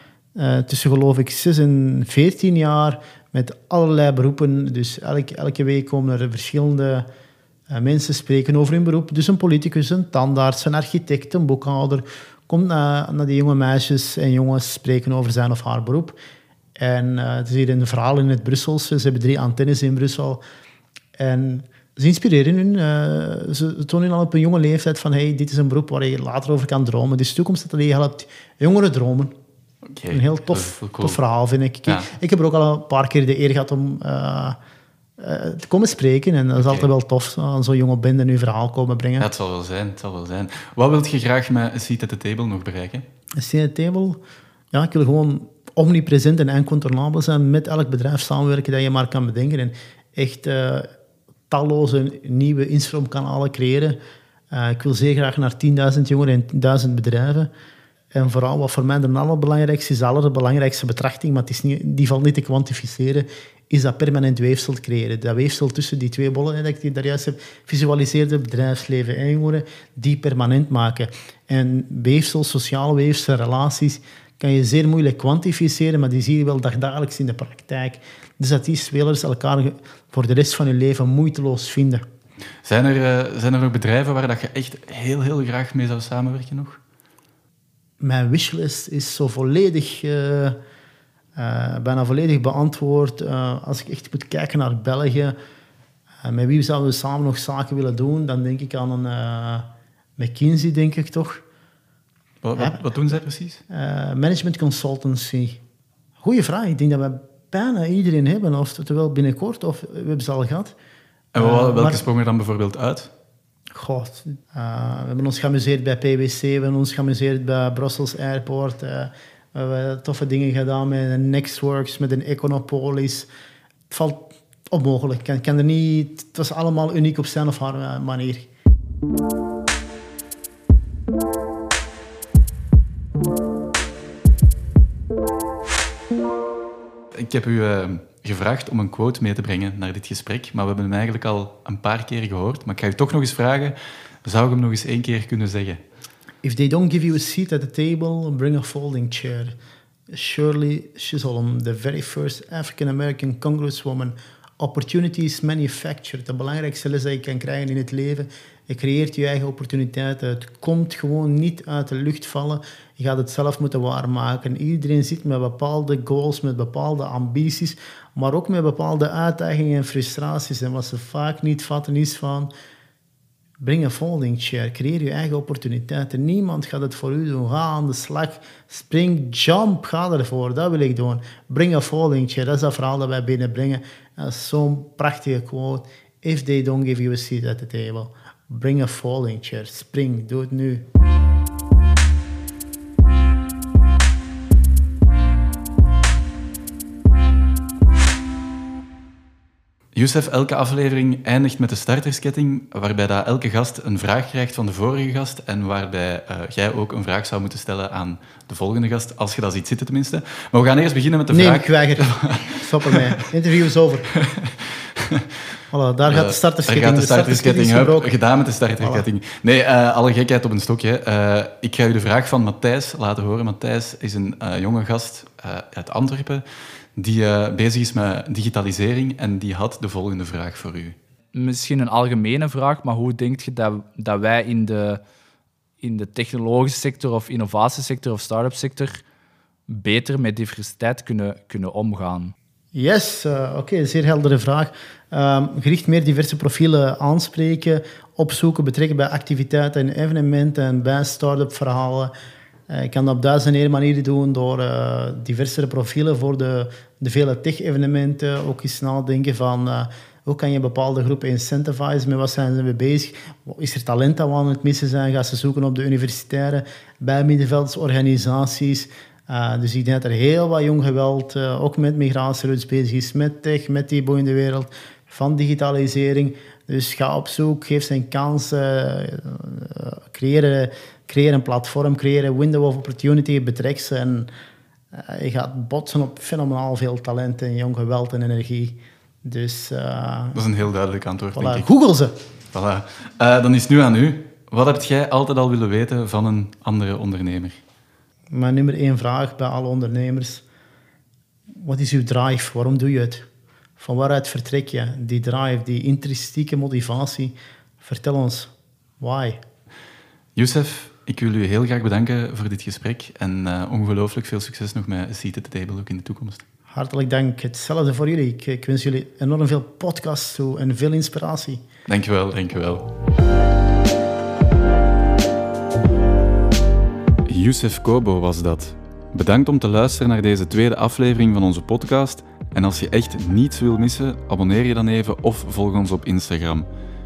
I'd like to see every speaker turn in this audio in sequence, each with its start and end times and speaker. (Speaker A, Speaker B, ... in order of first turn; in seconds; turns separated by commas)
Speaker A: 0.3-7.1, Speaker A: 7.7-16.2, Speaker A: 16.8-20.4, Speaker A: 21.2-29.3, Speaker B: 29.9-31.2, Speaker A: 30.1-34.6, Speaker B: 31.9-32.1, Speaker A: 35.2-39.3, Speaker B: 36.6-36.9, Speaker B: 39.2-43.0, Speaker A: 43.4-44.2, Speaker A: 44.7-50.9, Speaker A: 51.5-54.0, Speaker A: 54.5-57.5, Speaker A: 58.1-82.0, Speaker B: 82.6-86.8, Speaker A: 88.0-90.6, Speaker A: 91.4-95.4, Speaker A: 96.2-101.4, Speaker B: 102.4-103.6, Speaker A: 103.7-105.6, Speaker A: 106.2-110.8, Speaker B: 111.3-113.1, Speaker A: 111.4-112.0, Speaker A: 113.7-123.3, Speaker A: 123.9-128.5, Speaker B: 137.2-145.8, Speaker A: 146.4-149.6, Speaker A: 150.1-172.5, Speaker A: 173.6-190.9, Speaker B: 199.9-213.2, Speaker A: 211.3-214.1, Speaker B: 214.1-215.3, Speaker A: 215.7-218.1, Speaker B: 216.1-226.4, Speaker A: 218.8-219.1, Speaker B: 227.0-231.0, Speaker C: 231.3-235.0, Speaker C: 235.8-239.0, Speaker C: 239.7-242.3, Speaker A: 242.7-252.1, Speaker A: 252.7-284.3, Speaker A: 284.9-290.4, Speaker B: 290.3-291.7, Speaker A: 291.4-292.1, Speaker B: 292.5-297.6, Speaker A: 298.3-300.4, Speaker A: 301.5-303.3, Speaker A: 303.8-309.4, Speaker B: 310.4-316.4, Speaker A: 316.7-321.6, Speaker B: 321.9-322.9, Speaker B: 327.3-336.7